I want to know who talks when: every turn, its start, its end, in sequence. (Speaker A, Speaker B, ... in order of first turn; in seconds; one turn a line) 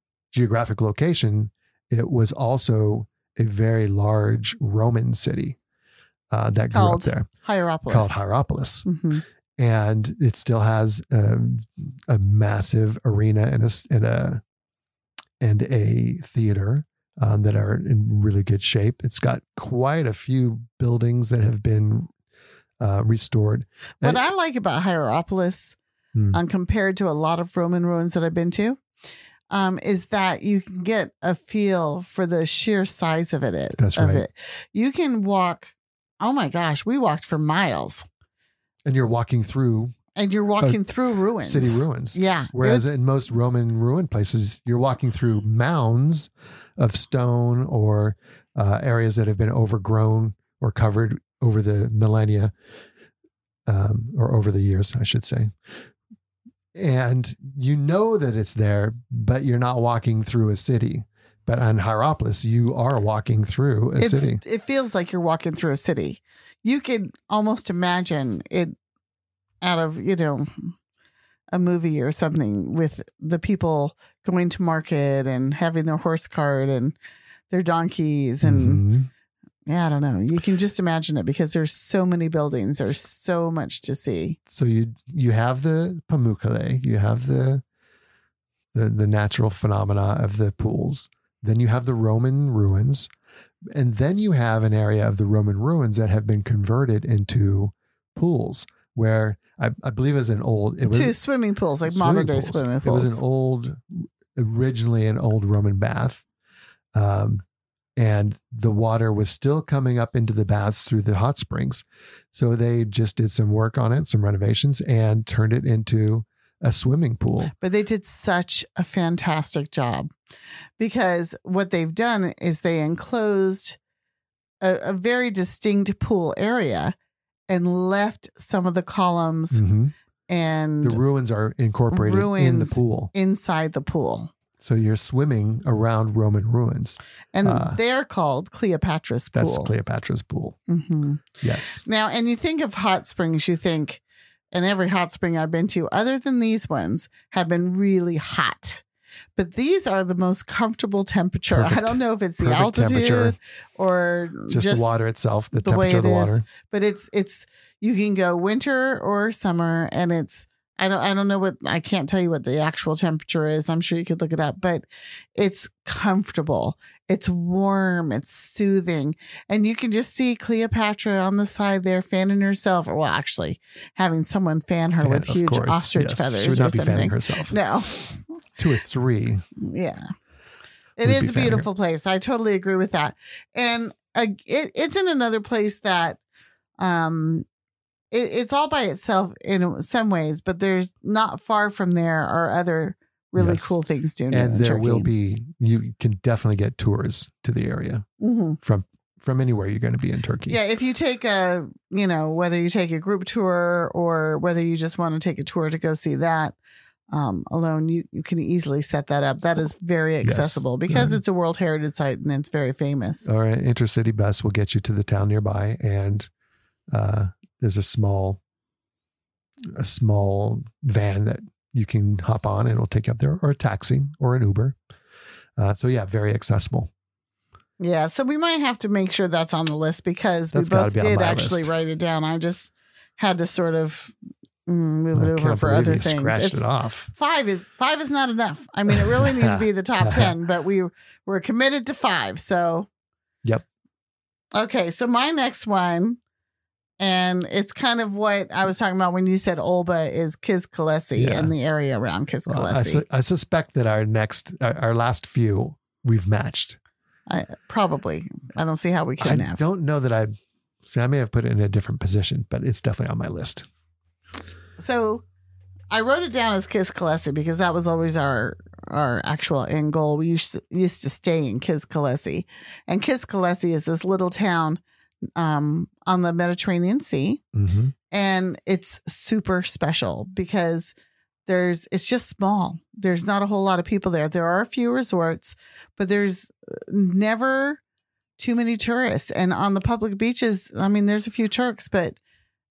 Speaker A: 0.3-5.6
Speaker A: 6.3-7.2
Speaker B: 6.7-8.2
Speaker A: 7.9-8.9
Speaker B: 8.8-9.2
Speaker A: 9.6-14.4
Speaker A: 15.4-22.1
Speaker A: 22.8-24.3
Speaker B: 24.0-25.8
Speaker B: 26.3-28.8
Speaker B: 29.5-38.0
Speaker A: 33.8-34.2
Speaker A: 38.9-40.0
Speaker B: 40.1-43.0
Speaker A: 41.4-52.5
Speaker A: 53.7-55.5
Speaker A: 56.7-64.4
Speaker B: 64.0-68.8
Speaker B: 69.6-70.7
Speaker B: 71.5-77.0
Speaker B: 77.5-78.8
Speaker A: 78.4-79.1
Speaker B: 79.7-84.4
Speaker A: 84.5-87.6
Speaker A: 88.7-93.1
Speaker A: 93.7-101.2
Speaker B: 100.9-103.2
Speaker A: 101.8-106.2
Speaker A: 106.9-107.4
Speaker A: 108.0-117.5
Speaker B: 117.6-120.1
Speaker B: 120.8-123.8
Speaker B: 124.6-126.9
Speaker B: 127.5-129.6
Speaker A: 129.5-129.9
Speaker B: 130.3-131.0
Speaker A: 130.8-133.1
Speaker B: 131.9-134.3
Speaker A: 134.6-137.8
Speaker B: 137.3-139.7
Speaker A: 139.3-140.6
Speaker B: 140.7-144.0
Speaker A: 141.4-141.8
Speaker B: 144.5-148.8
Speaker B: 149.3-154.8
Speaker A: 151.5-153.4
Speaker A: 154.5-156.4
Speaker B: 155.5-164.8
Speaker B: 165.4-178.2
Speaker A: 175.0-177.6
Speaker A: 178.6-179.4
Speaker B: 179.6-180.1
Speaker B: 181.0-186.2
Speaker A: 181.0-181.7
Speaker B: 186.8-187.4
Speaker B: 188.1-195.1
Speaker A: 193.4-193.7
Speaker A: 194.3-198.0
Speaker B: 198.2-198.6
Speaker A: 198.6-200.6
Speaker B: 200.5-206.6
Speaker B: 207.1-213.2
Speaker A: 210.2-211.2
Speaker A: 213.2-216.3
Speaker A: 216.9-218.4
Speaker A: 219.7-224.8
Speaker A: 225.6-226.9
Speaker B: 227.8-234.1
Speaker A: 230.5-231.7
Speaker B: 234.7-242.9
Speaker A: 235.1-237.1
Speaker A: 238.9-240.3
Speaker B: 244.5-246.2
Speaker B: 247.0-253.0
Speaker A: 251.2-251.5
Speaker A: 252.5-256.8
Speaker B: 257.3-259.6
Speaker A: 259.2-263.7
Speaker B: 264.8-265.2
Speaker B: 265.9-274.8
Speaker B: 275.4-277.4
Speaker A: 277.5-277.9
Speaker B: 278.1-280.9
Speaker B: 281.5-287.8
Speaker B: 288.4-292.2